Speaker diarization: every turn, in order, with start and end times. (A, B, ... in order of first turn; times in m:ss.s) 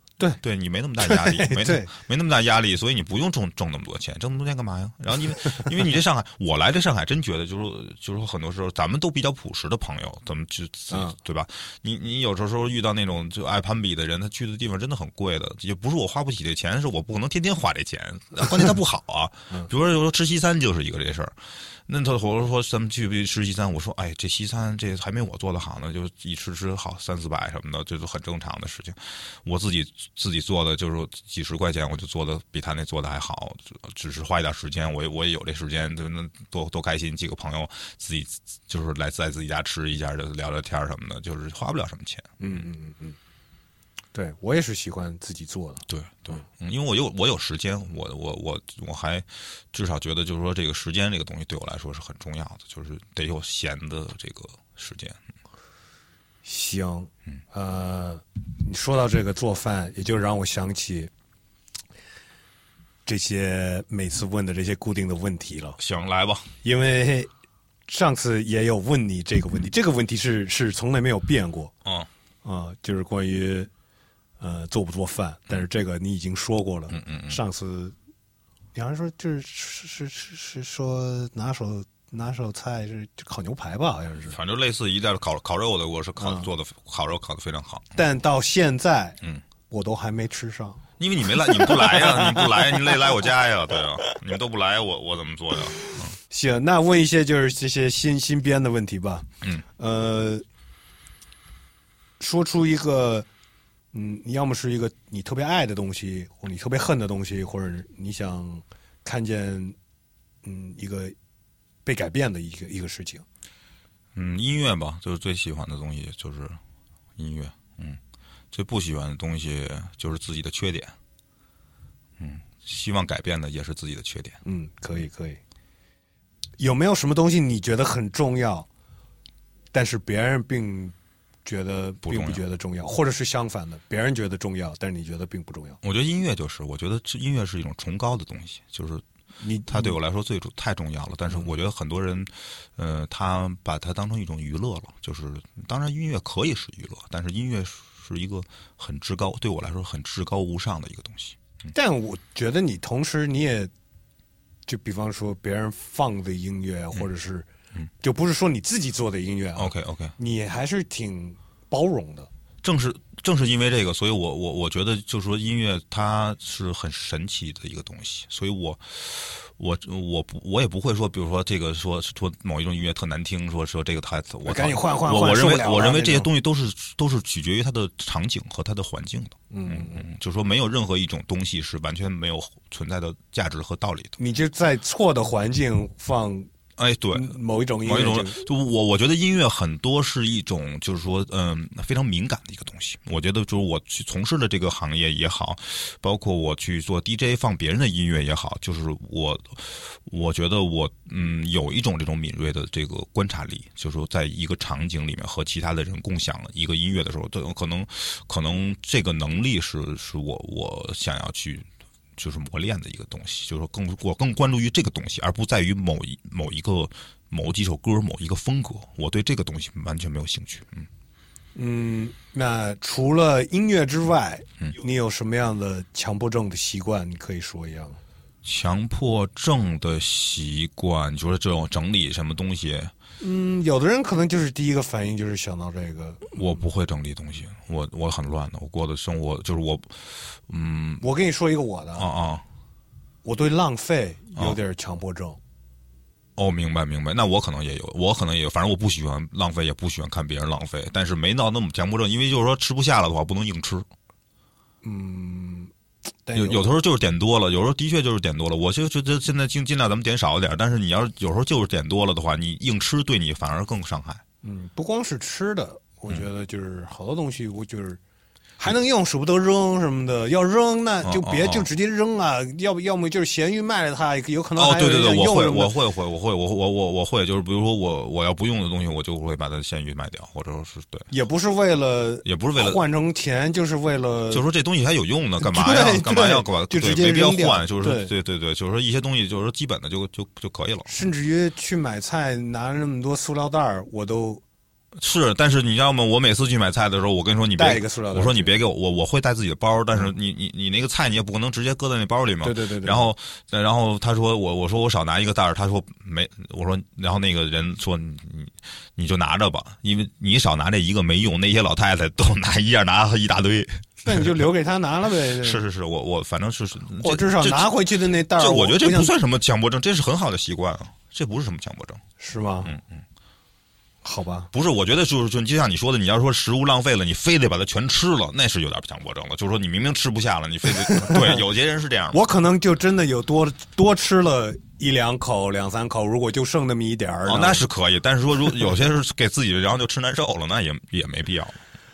0:00.4-0:42.3 A
0:01.0-0:01.9 B
0:42.4-0:43.2 B
0:44.1-0:46.4 B
0:45.9-0:55.2 A
0:56.4-1:01.1 B
1:03.0-1:05.8 B
1:05.8-1:06.5 A
1:06.6-1:07.3 B
1:07.9-1:11.7 B
1:12.4-1:13.7 B
1:14.4-1:17.9 B
1:16.9-1:17.4 A
1:18.7-1:24.4 B
1:24.3-1:28.0 A
1:26.2-1:26.5 B
1:27.9-1:29.2 B
1:29.7-1:30.8 B
1:31.0-1:36.1 A
1:31.4-1:32.9 B
1:36.3-1:40.4 B
1:42.2-1:43.3 B
1:43.9-1:49.8 B
1:50.4-1:51.1 B
1:51.8-1:53.2 B
1:54.1-1:56.6 A
1:57.2-1:58.0 A
1:58.5-2:01.0 A
2:02.2-2:04.4 A
2:04.4-2:05.4 B
2:06.6-2:08.7 B
2:09.7-2:15.8 B
2:12.0-2:12.4 A
2:15.8-2:19.0 A
2:19.4-2:19.9 B
2:19.7-2:31.7 A
2:31.7-2:33.7 B
2:34.7-2:37.5 B
2:38.0-2:42.3 B
2:39.6-2:40.1 A
2:42.6-3:04.2 A
2:54.4-2:56.3 B
2:59.5-3:00.0 B
3:04.2-3:06.5 B
3:06.8-3:40.9 A
3:07.1-3:08.4 B
3:41.5-3:48.0 B
3:48.4-3:52.9 A
3:53.2-3:56.6 B
3:56.3-4:01.0 A
4:01.0-4:02.1 B
4:02.0-4:02.4 A
4:03.2-4:05.4 B
4:06.4-4:13.9 A
4:14.8-4:15.7 B
4:16.2-4:16.7 B
4:16.3-4:24.2 A
4:24.4-4:28.0 B
4:28.6-4:35.7 B
4:31.0-4:31.7 A
4:34.6-4:41.1 A
4:41.1-4:44.4 B
4:42.2-4:42.8 A
4:44.3-4:51.0 A
4:45.4-4:48.1 B
4:50.8-4:54.4 B
4:54.9-5:14.4 A
4:57.6-4:58.5 B
5:02.4-5:03.1 B
5:14.0-5:15.6 B
5:15.2-5:22.0 A
5:17.0-5:19.1 B
5:22.2-5:22.7 B
5:22.6-5:23.0 A
5:24.0-5:24.5 B
5:24.5-5:32.2 A
5:30.8-5:31.4 B
5:32.1-5:37.6 B
5:37.2-5:41.6 A